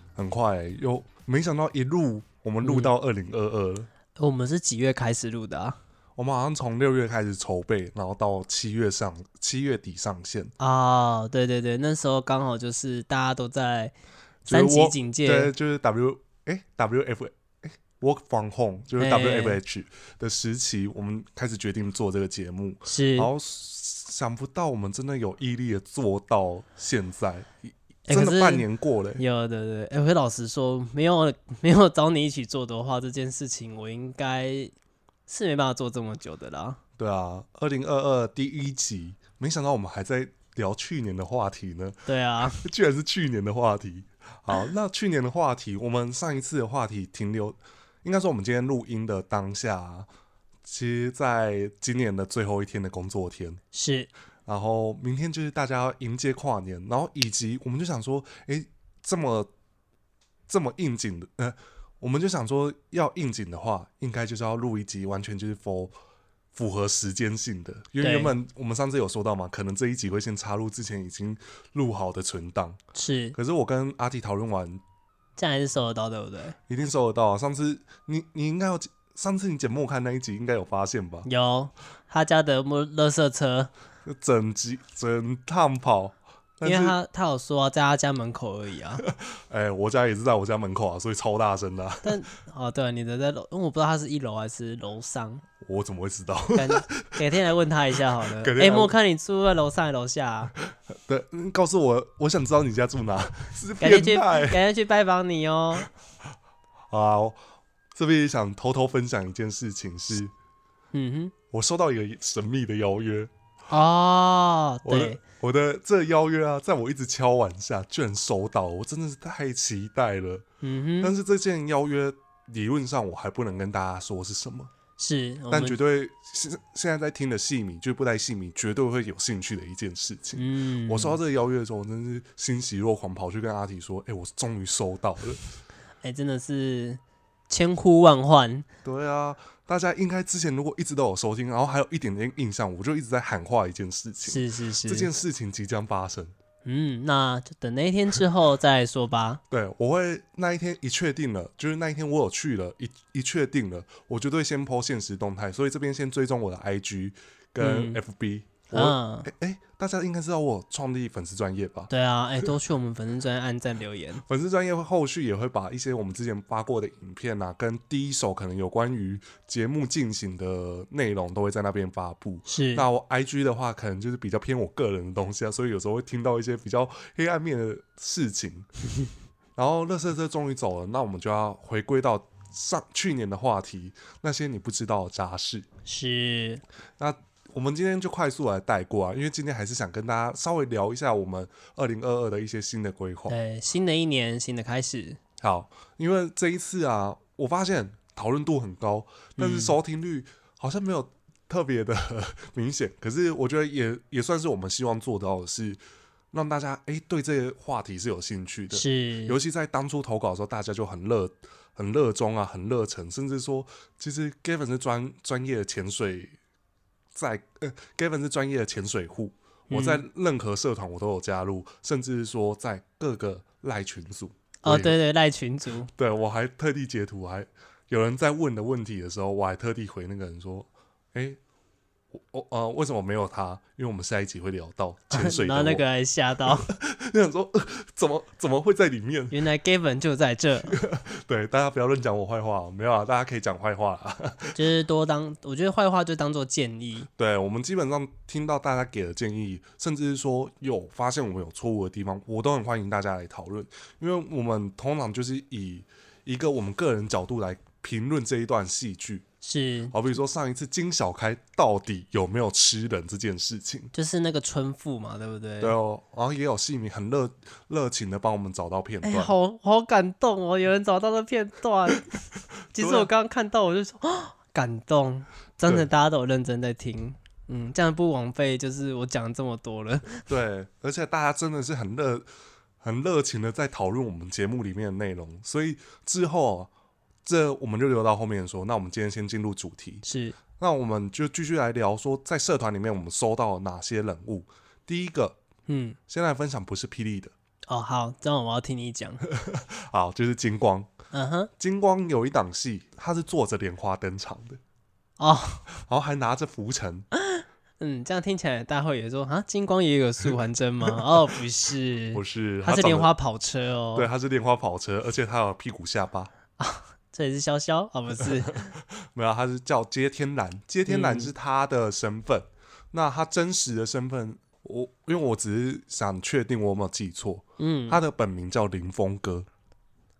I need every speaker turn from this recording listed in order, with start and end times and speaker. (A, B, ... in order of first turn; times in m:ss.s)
0:00.2-0:03.9 A
0:02.6-0:02.9 B
0:04.2-0:05.8 B
0:06.2-0:10.5 A
0:10.6-0:13.9 B
0:14.4-0:29.2 A
0:14.5-0:15.5 B
0:19.0-0:19.6 B
0:22.8-0:23.3 B
0:28.1-0:28.6 B
0:29.2-0:34.7 B
0:35.3-0:36.8 B
0:37.0-0:50.1 A
0:42.1-0:42.6 B
0:50.6-0:53.6 A
0:53.7-0:54.1 B
0:54.5-0:59.5 A
1:00.5-1:05.9 A
1:06.5-1:12.8 A
1:08.0-1:08.3 B
1:12.9-1:13.4 B
1:13.3-1:14.8 A
1:15.4-1:16.6 B
1:16.7-1:21.3 A
1:21.2-1:23.7 B
1:24.0-1:27.0 A
1:26.6-1:29.0 B
1:29.0-1:32.2 A
1:32.0-1:35.4 B
1:35.6-1:37.2 A
1:36.5-1:40.5 B
1:38.2-1:38.9 A
1:40.7-1:44.6 A
1:43.8-1:45.9 B
1:46.9-1:47.4 A
1:47.9-1:50.3 A
1:50.9-1:51.3 B
1:51.5-1:53.3 A
1:53.7-1:55.2 B
1:54.8-2:00.4 A
2:00.6-2:01.1 B
2:01.0-2:04.7 A
2:05.0-2:05.8 B
2:05.5-2:15.4 A
2:10.4-2:11.2 B
2:16.0-2:18.7 B
2:18.8-2:26.3 A
2:24.3-2:25.1 B
2:26.6-2:29.4 B
2:29.5-2:41.9 A
2:37.6-2:38.0 B
2:38.7-2:39.3 B
2:41.9-2:44.2 B
2:44.2-2:58.7 A
2:52.5-2:52.9 B
2:59.6-3:05.6 A
3:05.8-3:06.6 B
3:07.0-3:13.3 A
3:13.3-3:15.2 B
3:15.4-3:25.8 A
3:19.4-3:19.8 B
3:26.3-3:36.4 A
3:28.7-3:29.4 B
3:37.1-3:45.0 A
3:39.7-3:40.0 B
3:44.6-3:45.9 B
3:45.9-3:51.4 A
3:52.1-3:55.8 A
3:55.1-3:56.7 B
3:56.4-3:59.4 A
3:59.3-4:00.8 B
4:00.6-4:04.6 A
4:04.5-4:07.1 B
4:07.2-4:19.2 A
4:19.4-4:19.9 B
4:19.9-4:23.9 A
4:23.9-4:25.7 B
4:25.6-4:29.3 A
4:29.0-4:32.1 B
4:32.7-4:40.3 B
4:32.8-4:33.1 A
4:40.3-4:42.3 A
4:42.8-4:46.7 A
4:47.2-4:50.0 A
4:50.0-4:50.4 B
4:50.6-4:55.4 A
4:55.7-4:56.0 B
4:56.1-4:57.3 A
4:57.7-4:59.2 B
4:59.3-5:00.9 A
5:01.1-5:01.5 B
5:01.6-5:04.6 A
5:05.2-5:05.6 B
5:05.7-5:07.0 A
5:07.1-5:14.1 B
5:12.1-5:13.1 A
5:14.0-5:16.3 A
5:16.6-5:18.7 B
5:18.7-5:29.5 A
5:20.9-5:21.3 B
5:27.6-5:28.0 B